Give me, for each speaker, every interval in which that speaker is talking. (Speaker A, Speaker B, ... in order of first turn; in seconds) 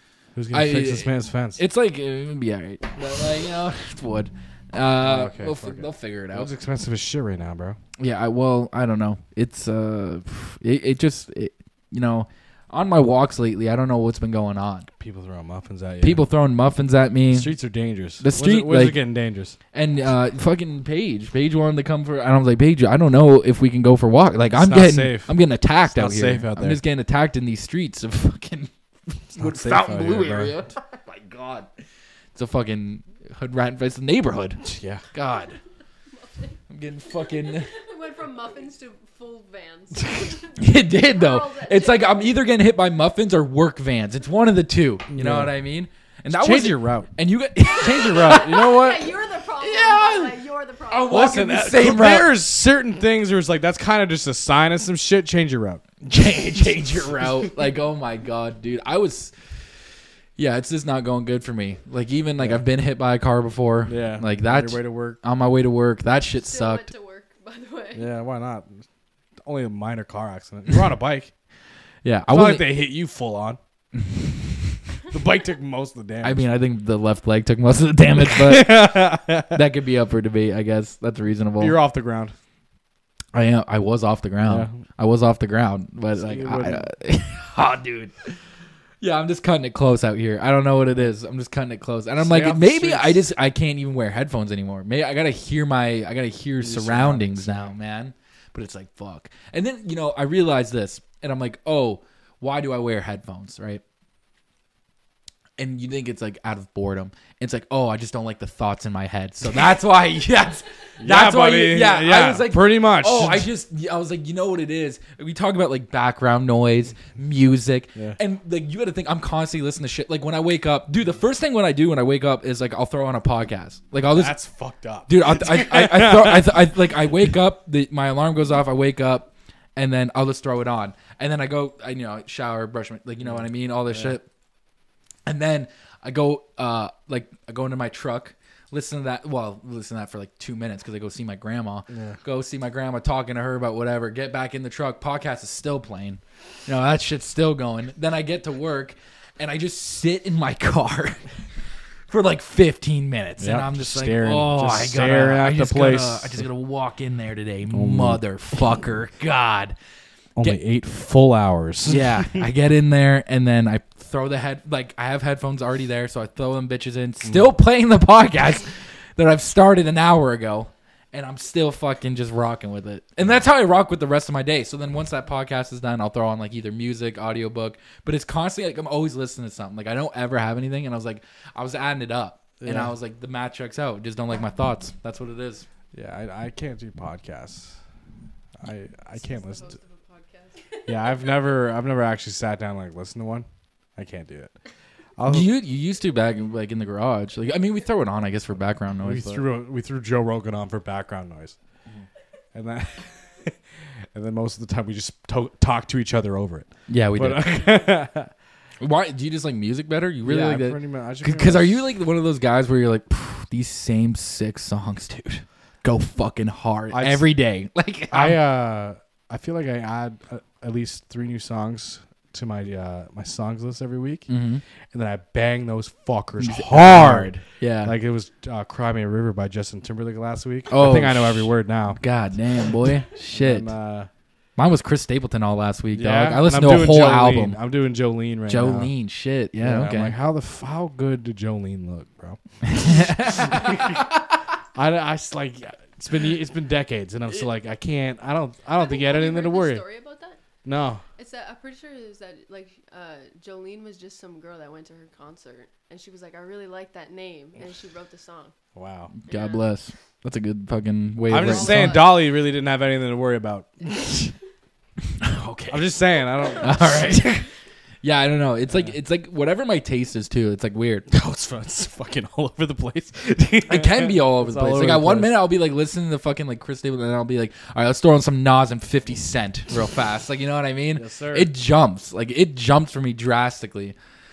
Speaker A: 0.3-1.6, 5.0-7.8, 15.0-16.2, 17.3-19.6, 24.6-25.3, 25.9-26.8, 29.3-30.6, 34.6-35.0, 45.1-45.5, 46.3-47.1, 47.8-49.1, 51.1-55.8, 63.9-65.2, 67.9-68.8, 69.4-71.3, 72.3-73.6, 75.1-76.4, 78.2-79.6, 81.6-82.3, 84.4-84.8, 86.1-86.8, 92.2-93.2, 96.6-97.7, 111.0-113.5, 124.1-127.3, 133.2-134.2, 141.9-142.2, 153.4-156.4, 157.7-158.2, 160.3-162.4, 182.6-182.9, 185.9-187.8, 188.6-189.8, 190.8-193.4, 194.0-194.5, 195.2-195.5, 199.0-201.6, 202.5-203.6, 204.1-208.3, 210.2-211.9, 216.9-217.2, 218.1-224.3, 224.9-232.0, 233.3-234.1, 235.9-238.9, 239.6-244.0, 244.7-249.8, 250.6-251.0, 258.7-259.1, 261.3-264.3, 265.7-267.3, 268.7-268.9, 271.1-275.4, 280.9-281.5
Speaker B: 0.5-6.5, 8.0-14.9, 16.0-17.5, 18.2-19.0, 19.7-31.7, 32.3-35.6, 36.7-37.7, 40.6-48.7, 49.6-52.3, 56.0-59.4, 60.4-66.9, 72.0-72.7, 74.0-74.7, 76.2-81.8, 83.3-88.4, 89.0-103.8, 105.6-124.3, 125.1-134.3, 135.2-151.3, 152.1-159.8, 161.8-185.7, 195.2-199.4, 206.9-207.6, 208.8-218.4, 224.3-224.6, 226.4-227.9, 230.7-233.7, 234.6-237.6, 238.5-240.1, 242.7-244.0, 259.1-262.1, 265.2-265.9, 266.6-267.5, 268.0-271.1, 273.7-283.9
Speaker C: 36.1-36.6, 37.1-42.4, 47.7-51.3, 66.3-68.1, 189.1-191.5, 248.7-250.4, 251.2-258.5, 259.3-259.7, 261.4-262.2